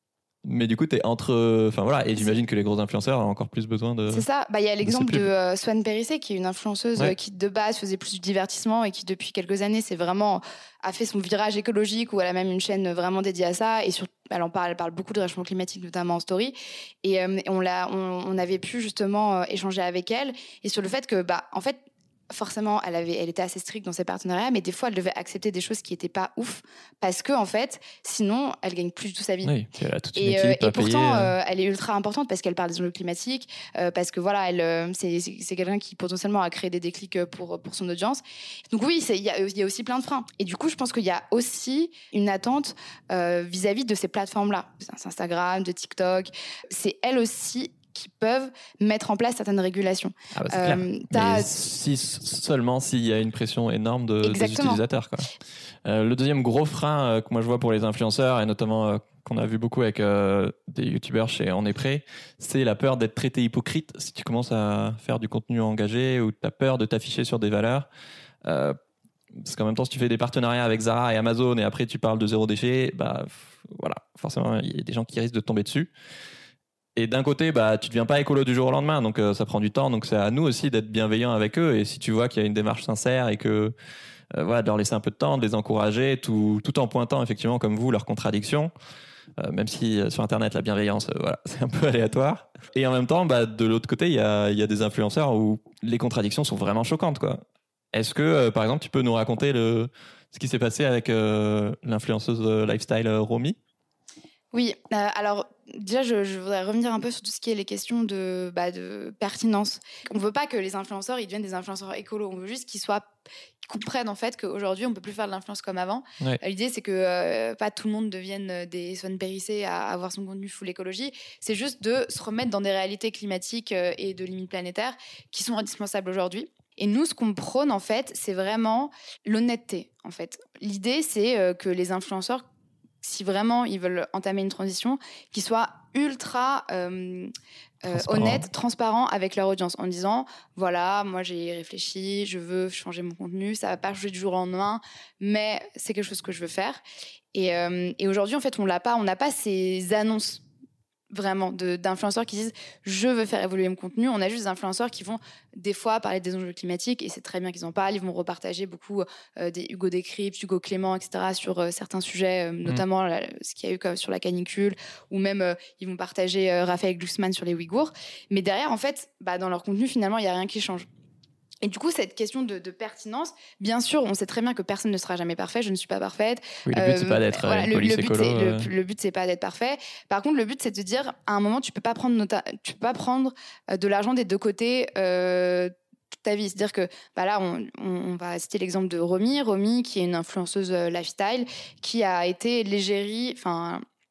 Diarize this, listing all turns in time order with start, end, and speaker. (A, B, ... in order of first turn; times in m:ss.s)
0:00.4-0:04.2 A
0:04.1-0:29.5 B
0:04.8-0:05.2 A
0:29.4-0:31.3 A
0:30.1-0:51.6 B
0:50.3-0:55.3 A
0:54.2-0:54.8 B
0:55.8-1:07.9 A
1:08.4-1:08.8 A
1:09.4-1:15.9 A
1:17.0-1:23.7 A
1:24.3-1:28.7 A
1:29.4-1:37.4 A
1:37.9-1:43.6 A
1:44.5-1:53.1 B
1:53.6-2:12.4 B
2:13.0-2:17.3 B
2:17.8-2:26.8 B
2:17.9-2:18.5 A
2:27.3-2:30.4 B
2:31.1-2:50.8 B
2:51.6-3:05.7 B
2:56.7-2:58.7 A
3:06.2-3:13.8 B